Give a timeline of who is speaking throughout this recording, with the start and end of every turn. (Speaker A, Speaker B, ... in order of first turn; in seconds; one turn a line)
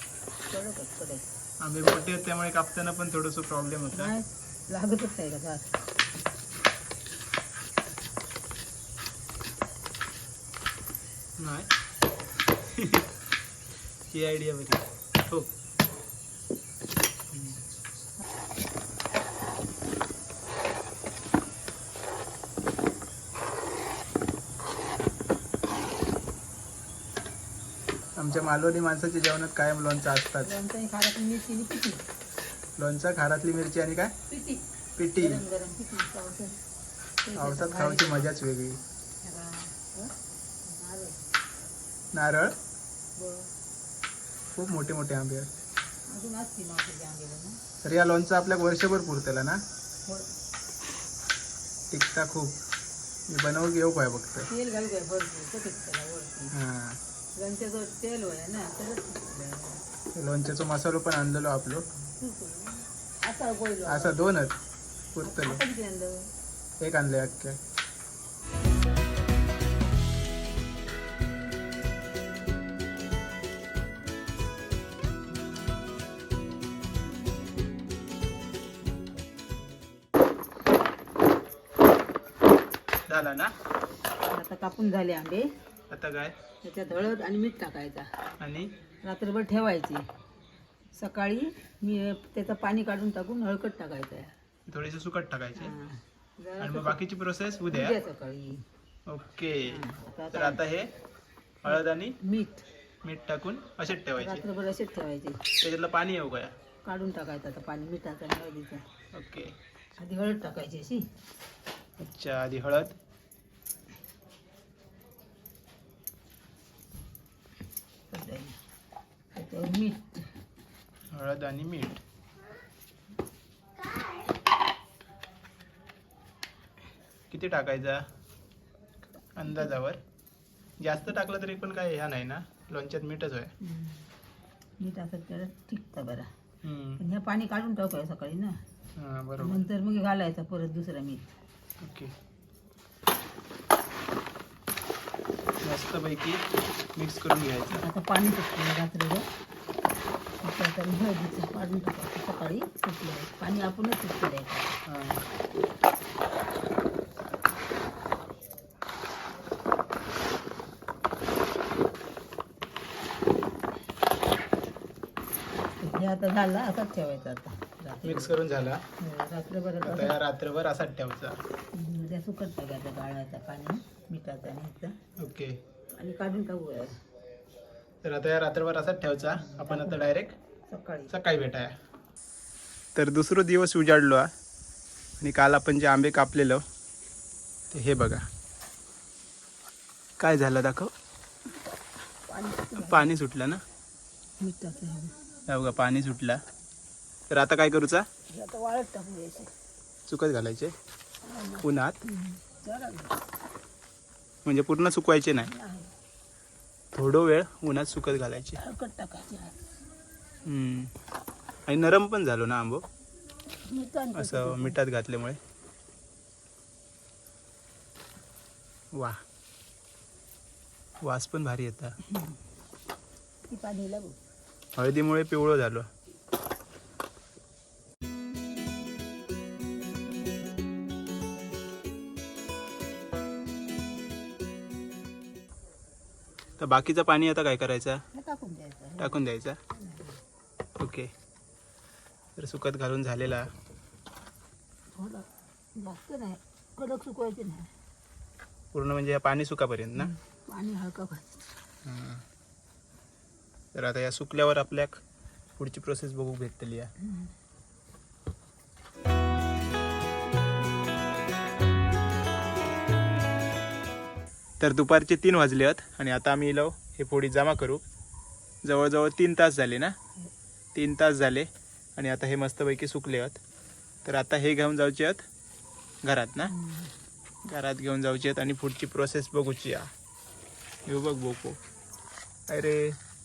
Speaker A: 0.5-1.3
Speaker B: 1.6-4.1
Speaker A: 3.9-5.7
Speaker B: 11.4-11.7
Speaker B: 12.7-13.1
Speaker B: 14.1-15.5
Speaker B: 17.3-17.6
Speaker B: 28.2-30.5
Speaker A: 30.4-32.0
Speaker B: 32.8-34.1
Speaker A: 34.3-34.6
Speaker B: 35.0-35.4
Speaker A: 35.2-36.6
Speaker A: 37.2-38.3
Speaker B: 37.4-38.8
Speaker A: 39.2-40.1
Speaker A: 40.7-41.2
Speaker B: 42.1-42.5
Speaker A: 43.2-43.5
Speaker B: 44.5-45.5
Speaker A: 46.1-47.6
Speaker B: 47.8-49.6
Speaker B: 51.9-52.6
Speaker B: 53.3-54.5
Speaker A: 54.5-56.5
Speaker B: 56.5-57.0
Speaker A: 57.4-59.8
Speaker B: 60.1-61.9
Speaker A: 61.9-64.4
Speaker B: 63.9-64.5
Speaker B: 65.2-65.6
Speaker A: 65.2-66.3
Speaker B: 66.8-67.6
Speaker B: 83.1-83.5
Speaker A: 84.3-85.5
Speaker B: 85.9-86.3
Speaker A: 86.6-88.1
Speaker B: 88.4-88.7
Speaker A: 89.1-90.1
Speaker A: 91.0-94.3
Speaker B: 94.7-95.7
Speaker A: 95.6-97.0
Speaker B: 96.6-98.0
Speaker A: 97.7-98.7
Speaker B: 99.1-99.8
Speaker A: 99.7-100.6
Speaker B: 100.3-100.9
Speaker B: 101.6-102.2
Speaker A: 101.7-102.6
Speaker B: 103.0-104.5
Speaker A: 104.2-105.4
Speaker B: 105.6-106.6
Speaker A: 106.8-108.8
Speaker B: 109.1-109.5
Speaker A: 110.0-111.0
Speaker B: 112.0-113.0
Speaker A: 118.1-118.6
Speaker A: 119.3-120.3
Speaker B: 121.1-122.0
Speaker B: 127.3-128.0
Speaker B: 129.3-130.0
Speaker B: 130.8-133.5
Speaker A: 133.6-134.0
Speaker A: 134.8-136.3
Speaker B: 136.6-137.0
Speaker A: 137.0-138.6
Speaker B: 139.0-139.6
Speaker A: 139.4-141.3
Speaker B: 141.8-142.1
Speaker B: 145.6-146.4
Speaker B: 147.0-147.8
Speaker A: 147.8-149.3
Speaker A: 150.4-154.7
Speaker B: 154.9-155.2
Speaker A: 165.8-168.4
Speaker B: 168.0-168.8
Speaker A: 169.0-170.2
Speaker B: 169.8-171.4
Speaker A: 171.7-174.9
Speaker B: 175.2-175.6
Speaker A: 176.0-177.0
Speaker B: 178.0-180.4
Speaker A: 179.4-180.0
Speaker A: 180.7-181.2
Speaker B: 181.1-181.8
Speaker B: 182.9-184.3
Speaker B: 185.2-186.6
Speaker B: 187.7-188.3
Speaker B: 190.2-190.9
Speaker A: 192.3-193.1
Speaker B: 192.8-193.6
Speaker A: 194.4-195.2
Speaker B: 195.5-196.4
Speaker B: 197.3-198.1
Speaker A: 198.3-199.5
Speaker B: 200.1-200.7
Speaker A: 201.2-203.2
Speaker B: 201.6-202.0
Speaker B: 204.4-205.5
Speaker A: 205.4-205.9
Speaker B: 206.9-208.6
Speaker A: 208.6-209.6
Speaker B: 210.4-210.9
Speaker B: 211.7-212.8
Speaker A: 213.7-214.8
Speaker B: 214.2-215.4
Speaker B: 218.9-219.2
Speaker B: 221.0-222.0
Speaker A: 222.1-222.3
Speaker A: 223.5-224.2
Speaker B: 224.8-225.9
Speaker B: 236.6-238.0
Speaker A: 238.1-239.2
Speaker B: 239.0-239.6
Speaker A: 239.7-240.2
Speaker B: 240.8-241.1
Speaker B: 242.4-243.5
Speaker A: 244.9-247.7
Speaker B: 248.7-250.1
Speaker A: 250.0-251.5
Speaker B: 251.8-252.2
Speaker B: 253.7-255.0
Speaker B: 255.6-256.9
Speaker A: 257.0-257.3
Speaker B: 264.6-267.8
Speaker B: 268.6-269.9
Speaker B: 270.8-273.4
Speaker B: 274.1-275.2
Speaker B: 276.0-276.5
Speaker A: 276.5-276.9
Speaker B: 277.5-279.9
Speaker B: 280.9-281.6
Speaker B: 282.5-283.0